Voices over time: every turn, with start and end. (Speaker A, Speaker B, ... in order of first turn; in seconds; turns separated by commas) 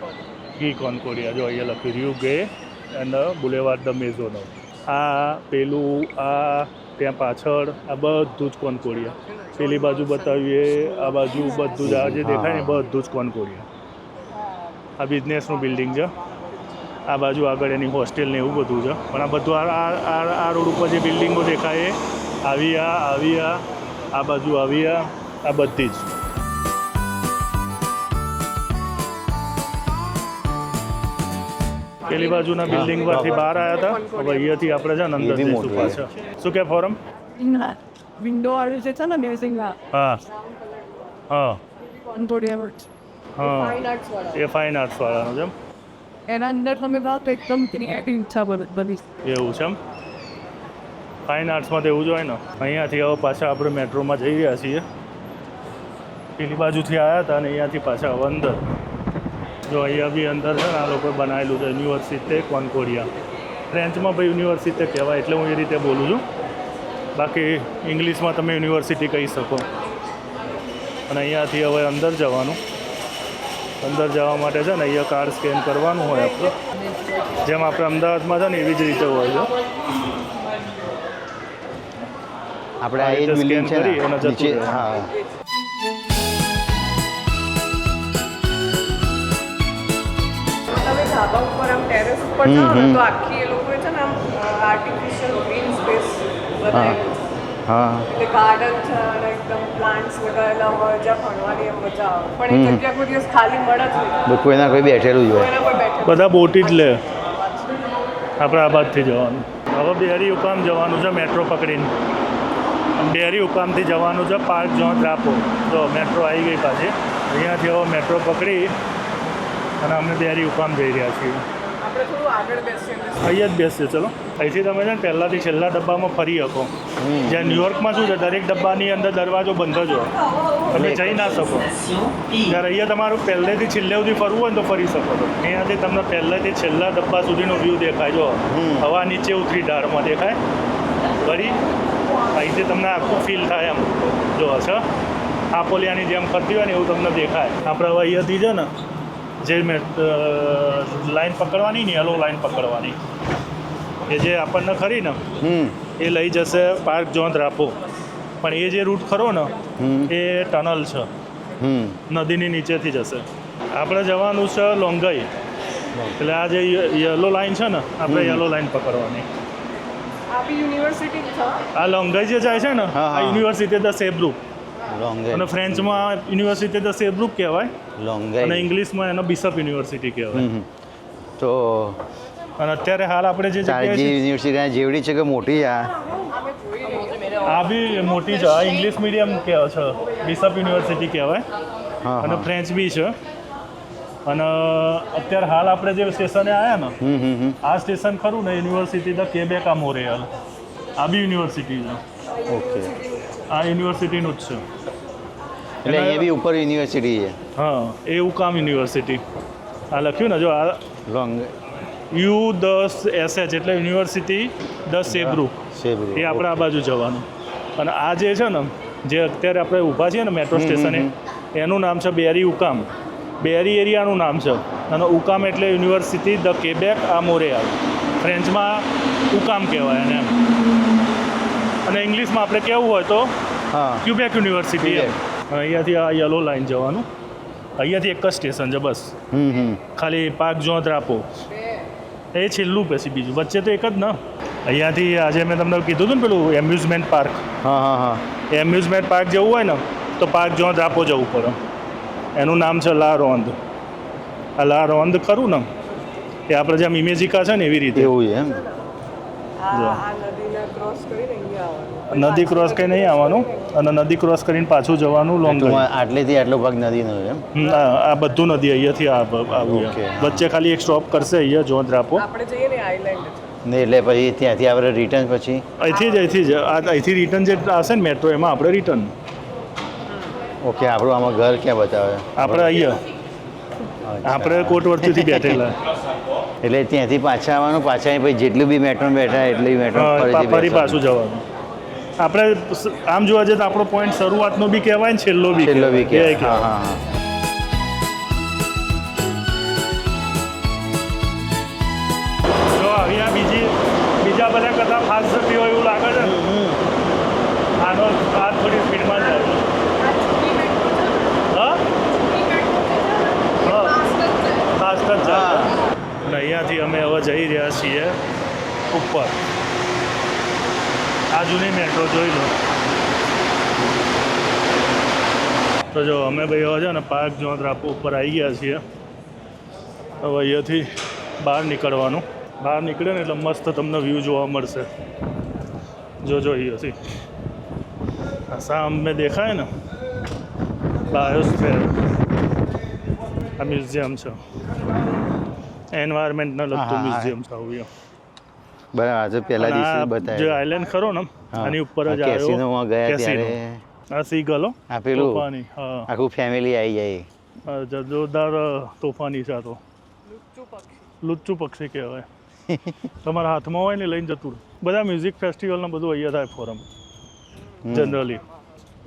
Speaker A: 0.6-13.7, Speaker B: 9.3-11.9, Speaker C: 11.8-12.8, Speaker A: 15.0-16.1, Speaker B: 16.1-16.4, Speaker A: 17.1-23.6, Speaker A: 24.1-26.1, Speaker A: 32.0-37.0, Speaker B: 32.1-34.9, Speaker C: 32.7-33.6, Speaker C: 35.2-36.0, Speaker D: 37.4-39.8, Speaker A: 39.9-40.2, Speaker A: 41.3-41.6, Speaker D: 42.0-42.9, Speaker A: 43.4-45.5, Speaker B: 43.4-44.4, Speaker D: 46.3-49.0, Speaker A: 49.2-49.8, Speaker A: 51.3-54.8, Speaker A: 56.4-58.6, Speaker A: 59.7-63.1, Speaker A: 63.7-66.2, Speaker A: 67.1-69.7, Speaker A: 71.1-72.6, Speaker A: 73.8-76.5, Speaker A: 77.4-79.5, Speaker C: 82.8-85.1, Speaker A: 83.0-84.8, Speaker B: 90.7-97.3, Speaker C: 92.4-93.1, Speaker C: 96.7-97.0, Speaker C: 97.7-98.1, Speaker B: 98.1-104.2, Speaker C: 102.5-102.8, Speaker C: 104.2-105.5, Speaker B: 105.3-107.8, Speaker A: 106.0-107.0, Speaker A: 108.4-111.9, Speaker A: 113.0-118.7, Speaker A: 119.8-121.4, Speaker B: 121.8-123.3, Speaker A: 123.2-126.7, Speaker C: 127.0-127.7, Speaker A: 127.2-130.1, Speaker A: 130.7-131.8, Speaker C: 130.7-131.6, Speaker A: 132.4-140.4, Speaker C: 138.5-138.9, Speaker A: 141.2-141.6, Speaker A: 142.3-144.8, Speaker A: 145.5-148.7, Speaker A: 149.4-153.0, Speaker A: 154.1-155.2, Speaker C: 155.4-155.8, Speaker A: 156.0-157.8, Speaker A: 158.4-159.5, Speaker C: 159.8-160.1, Speaker A: 160.1-161.1, Speaker C: 161.6-162.0, Speaker A: 162.1-165.3, Speaker C: 165.9-166.2, Speaker A: 166.2-169.3, Speaker C: 168.1-168.4, Speaker B: 170.3-171.6, Speaker A: 171.7-174.4, Speaker C: 172.9-173.5, Speaker C: 174.9-176.1, Speaker A: 175.3-177.7, Speaker C: 177.9-178.7, Speaker A: 178.4-180.5, Speaker C: 180.3-180.7, Speaker C: 181.4-182.0, Speaker A: 182.6-184.2, Speaker C: 183.6-185.9, Speaker B: 186.2-187.6, Speaker A: 187.4-191.4, Speaker C: 192.0-192.5, Speaker A: 192.2-193.1, Speaker A: 194.2-196.9, Speaker C: 197.0-197.6, Speaker A: 197.6-200.3, Speaker A: 201.0-202.0, Speaker C: 202.5-202.9, Speaker A: 203.5-204.6, Speaker C: 205.8-207.4, Speaker A: 205.8-206.3, Speaker A: 207.6-209.2, Speaker A: 209.9-210.8, Speaker C: 211.1-211.5, Speaker A: 212.1-215.6, Speaker C: 215.1-216.6, Speaker A: 216.2-222.9, Speaker C: 220.5-221.1, Speaker A: 223.4-230.3, Speaker A: 231.8-233.3, Speaker C: 233.7-234.1, Speaker A: 234.0-237.1, Speaker C: 234.8-235.2, Speaker A: 237.8-239.1, Speaker C: 239.3-239.8, Speaker A: 239.9-241.4, Speaker B: 241.5-241.9, Speaker A: 242.3-247.4, Speaker C: 247.6-248.2, Speaker A: 248.5-251.6, Speaker A: 252.3-253.6, Speaker A: 254.6-255.7, Speaker A: 256.5-258.1, Speaker C: 257.9-258.6, Speaker B: 259.6-263.8, Speaker A: 259.7-260.0, Speaker A: 262.1-265.9, Speaker C: 265.4-267.4, Speaker A: 267.5-272.2, Speaker C: 269.5-270.4, Speaker B: 272.1-273.6, Speaker C: 273.6-275.6, Speaker A: 275.8-279.1, Speaker B: 280.1-280.4, Speaker C: 280.6-282.7, Speaker A: 282.4-283.0, Speaker C: 284.0-285.6, Speaker A: 284.2-285.8, Speaker C: 286.6-291.0, Speaker A: 289.9-291.4, Speaker A: 292.2-296.7, Speaker C: 295.5-297.0, Speaker A: 302.7-306.4, Speaker C: 306.2-306.8, Speaker A: 307.8-309.6, Speaker B: 309.8-314.7, Speaker A: 311.5-311.8, Speaker A: 313.6-314.0, Speaker A: 314.8-318.2, Speaker C: 315.2-315.7, Speaker A: 318.9-319.4, Speaker A: 321.3-322.6, Speaker A: 325.9-328.8, Speaker A: 330.2-334.9, Speaker A: 336.2-337.0, Speaker A: 338.5-339.7, Speaker A: 341.1-342.0, Speaker C: 341.1-341.8, Speaker A: 343.6-344.4, Speaker A: 345.9-347.9, Speaker C: 346.7-347.4, Speaker C: 348.9-350.6, Speaker A: 349.6-353.6, Speaker C: 351.5-353.8, Speaker A: 354.1-356.1, Speaker C: 354.9-355.5, Speaker C: 356.1-357.3, Speaker A: 357.6-359.8, Speaker B: 360.2-361.1, Speaker A: 361.2-362.3, Speaker C: 362.7-363.0, Speaker A: 363.2-366.8, Speaker B: 367.6-368.8, Speaker C: 367.8-368.2, Speaker A: 367.9-368.4